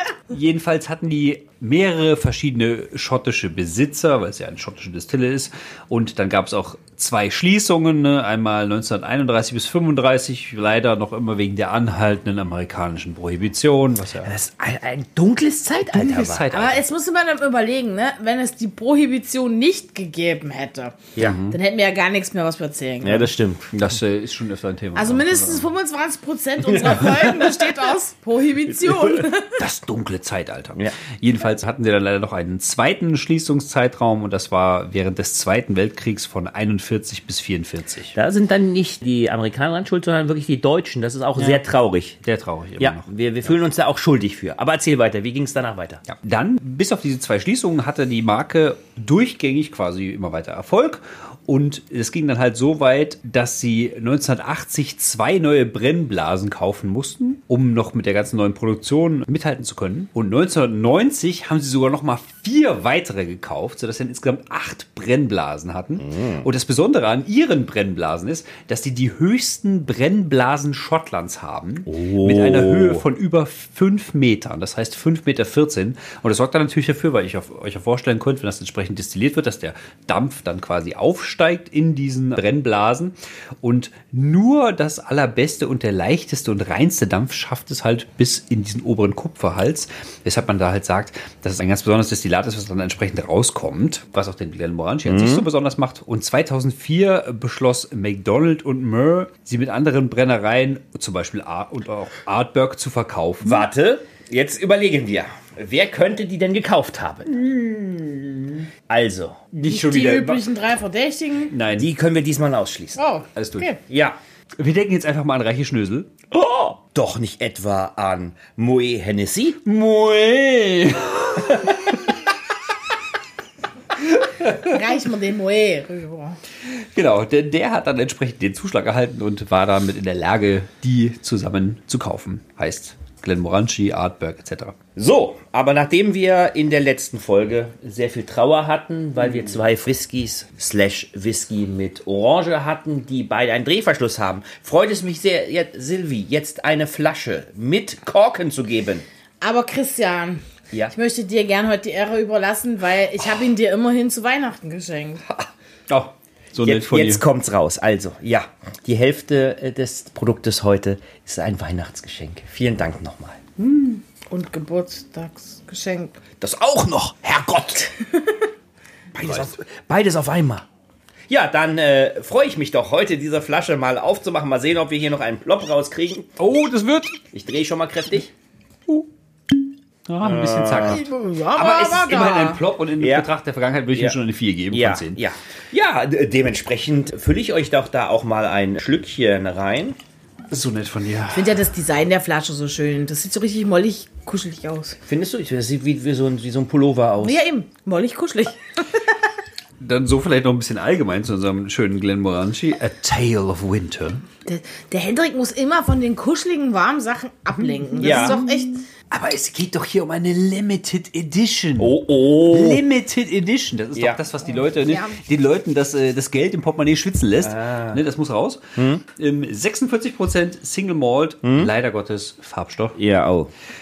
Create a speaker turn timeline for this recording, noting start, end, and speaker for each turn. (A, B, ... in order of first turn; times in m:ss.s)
0:00.3-0:14.3 A
0:14.2-0:16.6 B
0:15.9-0:16.8 A
0:16.5-0:23.3 C
0:21.2-0:21.5 A
0:23.0-0:23.7 B
0:23.7-0:25.7 A
0:24.9-0:29.6 C
0:26.7-0:27.4 B
0:28.7-0:29.3 B
0:29.6-0:38.1 A
0:38.1-0:42.2 B
0:41.4-0:41.6 A
0:42.2-0:43.1 A
0:42.8-0:46.0 B
0:46.1-1:43.7 A
1:06.0-1:06.5 B
1:11.9-1:13.0 B
1:35.0-1:35.5 B
1:43.4-1:47.4 B
1:47.3-1:48.6 A
1:48.9-1:49.4 B
1:49.5-1:50.5 A
1:49.6-1:51.5 C
1:51.5-1:51.9 A
1:51.8-1:53.0 B
1:53.0-1:53.8 C
1:53.4-1:53.7 A
1:53.9-1:54.2 B
1:54.6-1:56.1 A
1:56.3-1:59.6 B
1:59.6-2:02.1 A
2:01.4-2:01.8 B
2:04.2-2:04.8 A
2:04.4-2:06.4 C
2:06.7-2:14.7 A
2:15.0-2:29.0 B
2:29.4-2:35.2 C
2:35.9-2:37.2 A
2:36.6-2:43.5 B
2:43.7-2:46.2 C
2:46.4-2:47.8 B
2:47.8-2:48.5 C
2:49.1-2:50.6 B
2:49.2-2:49.5 A
2:51.3-2:56.3 B
2:56.4-2:57.2 A
2:57.3-2:58.3 B
3:00.1-3:01.0 A
3:00.2-3:01.0 B
3:00.8-3:02.6 C
3:01.6-3:05.2 A
3:01.6-3:02.0 B
3:03.0-3:03.3 B
3:04.7-3:10.0 B
3:10.5-3:11.6 A
3:11.3-3:15.0 C
3:15.0-3:17.4 B
3:17.2-3:19.2 C
3:19.8-3:24.2 A
3:24.4-3:28.8 C
3:27.7-3:43.0 A
3:28.0-3:28.4 B
3:31.8-3:32.8 B
3:33.9-3:34.2 B
3:34.5-3:35.2 C
3:37.4-3:38.0 B
3:38.8-3:39.0 B
3:41.4-3:41.7 B
3:43.0-3:43.5 B